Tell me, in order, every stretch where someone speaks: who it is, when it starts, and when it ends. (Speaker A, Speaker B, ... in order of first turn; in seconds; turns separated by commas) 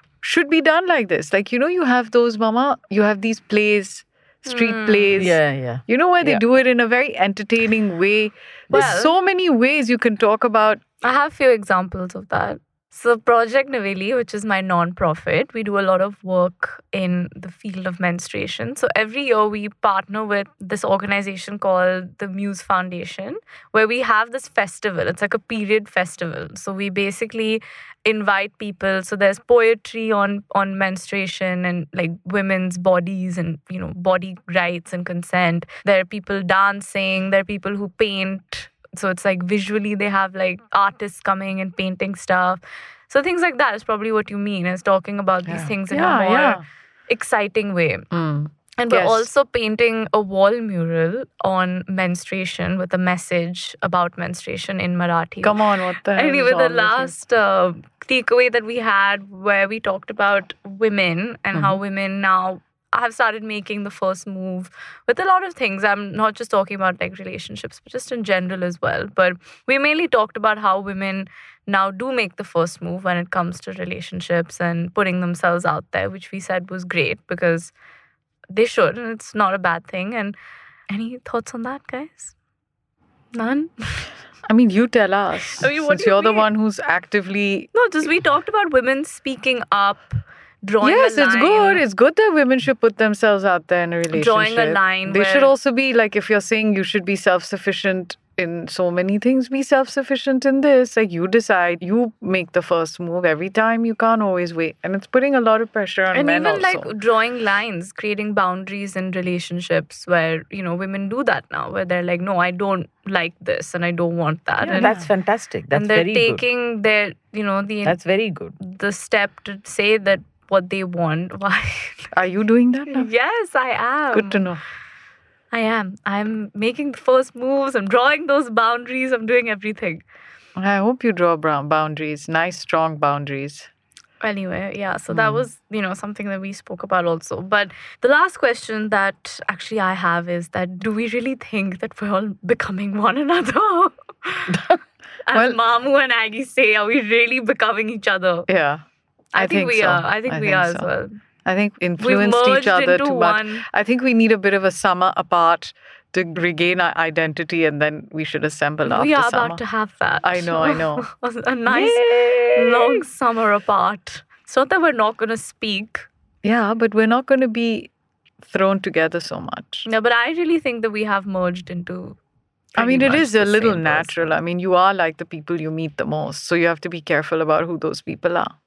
Speaker A: 0.2-10.8, Speaker B: 4.5-5.2, Speaker C: 5.1-6.4, Speaker B: 8.7-9.1, Speaker B: 11.0-48.1, Speaker A: 45.5-46.6, Speaker A: 48.1-49.3, Speaker B: 48.8-55.6, Speaker A: 55.4-57.1, Speaker B: 56.1-77.7, Speaker B: 78.5-80.3, Speaker B: 80.9-82.3, Speaker B: 83.3-84.0, Speaker A: 84.5-87.7, Speaker B: 85.6-86.5, Speaker B: 87.7-91.8, Speaker A: 90.8-106.9, Speaker B: 94.1-95.5, Speaker B: 106.1-114.9, Speaker A: 114.6-115.1, Speaker C: 114.7-116.4, Speaker B: 115.7-118.0, Speaker C: 117.8-118.5, Speaker B: 118.6-122.1, Speaker A: 122.1-123.1, Speaker B: 122.9-124.4, Speaker A: 124.1-124.6, Speaker B: 125.5-130.0, Speaker A: 130.6-133.7, Speaker B: 134.2-144.7, Speaker A: 135.1-135.4, Speaker B: 145.2-148.5, Speaker A: 145.3-145.6, Speaker A: 148.5-148.8, Speaker B: 149.3-151.2, Speaker A: 149.3-150.9, Speaker A: 151.4-159.6, Speaker B: 152.0-153.6, Speaker B: 158.8-166.1, Speaker A: 160.2-161.1, Speaker C: 161.7-163.0, Speaker A: 166.4-167.9, Speaker A: 168.4-169.8, Speaker B: 169.8-172.2, Speaker B: 172.7-174.1, Speaker A: 172.8-178.5